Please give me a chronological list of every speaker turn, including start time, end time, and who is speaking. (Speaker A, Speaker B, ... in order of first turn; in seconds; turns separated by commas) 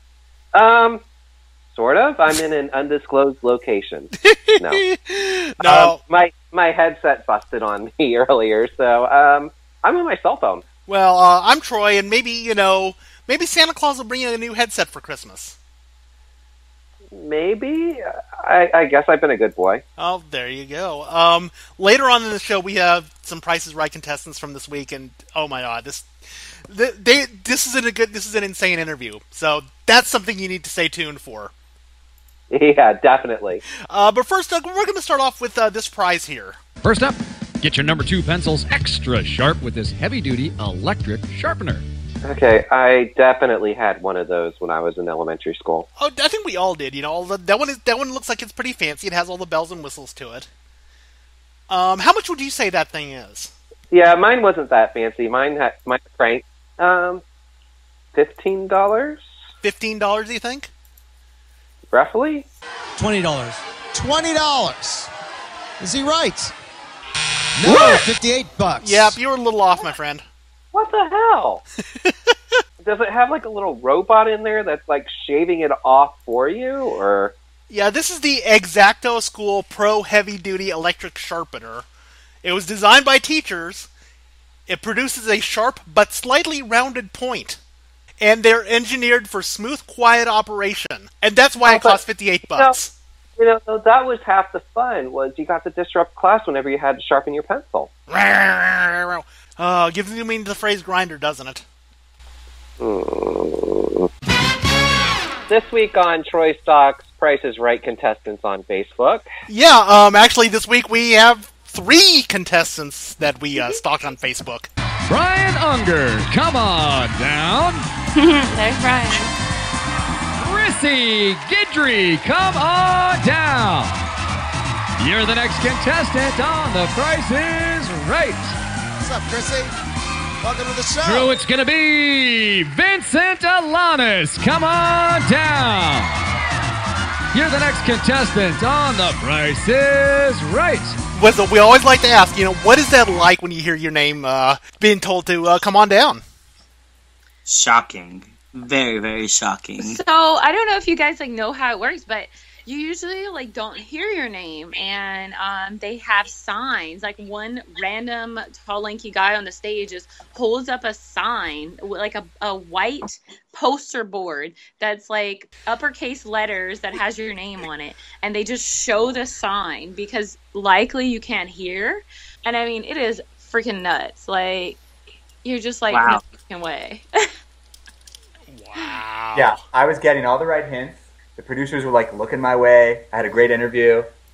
Speaker A: 0.5-1.0, Speaker A: 1.7-4.8, Speaker B: 4.1-6.0, Speaker A: 5.6-10.7, Speaker B: 10.8-15.6, Speaker A: 17.1-19.8, Speaker B: 20.0-26.1, Speaker B: 26.7-31.5, Speaker A: 32.5-33.6, Speaker B: 33.8-36.6, Speaker C: 36.8-41.9, Speaker A: 42.2-45.9, Speaker B: 46.0-50.5, Speaker B: 51.7-53.5, Speaker A: 53.9-57.2, Speaker A: 58.1-59.2, Speaker B: 59.6-60.7, Speaker A: 61.9-62.5, Speaker D: 63.0-65.1, Speaker D: 65.8-66.5, Speaker D: 67.6-69.2, Speaker B: 67.6-68.1, Speaker B: 68.8-70.2, Speaker A: 70.7-71.6, Speaker B: 72.0-72.6, Speaker A: 72.8-77.3, Speaker B: 77.7-81.8, Speaker B: 82.4-83.9, Speaker B: 84.7-87.6, Speaker B: 88.2-92.9, Speaker A: 91.7-92.8, Speaker A: 93.4-97.9, Speaker B: 98.1-101.6, Speaker A: 102.8-104.1, Speaker A: 105.5-109.3, Speaker B: 109.5-114.7, Speaker C: 115.1-117.9, Speaker E: 118.2-119.3, Speaker C: 120.4-124.0, Speaker C: 125.0-128.6, Speaker D: 129.0-129.7, Speaker D: 130.4-131.3, Speaker C: 131.0-136.2, Speaker C: 137.3-141.0, Speaker B: 141.2-146.2, Speaker F: 147.5-150.0, Speaker E: 149.8-174.8, Speaker E: 175.4-177.1, Speaker F: 175.9-176.2, Speaker B: 178.5-179.6, Speaker G: 179.3-184.1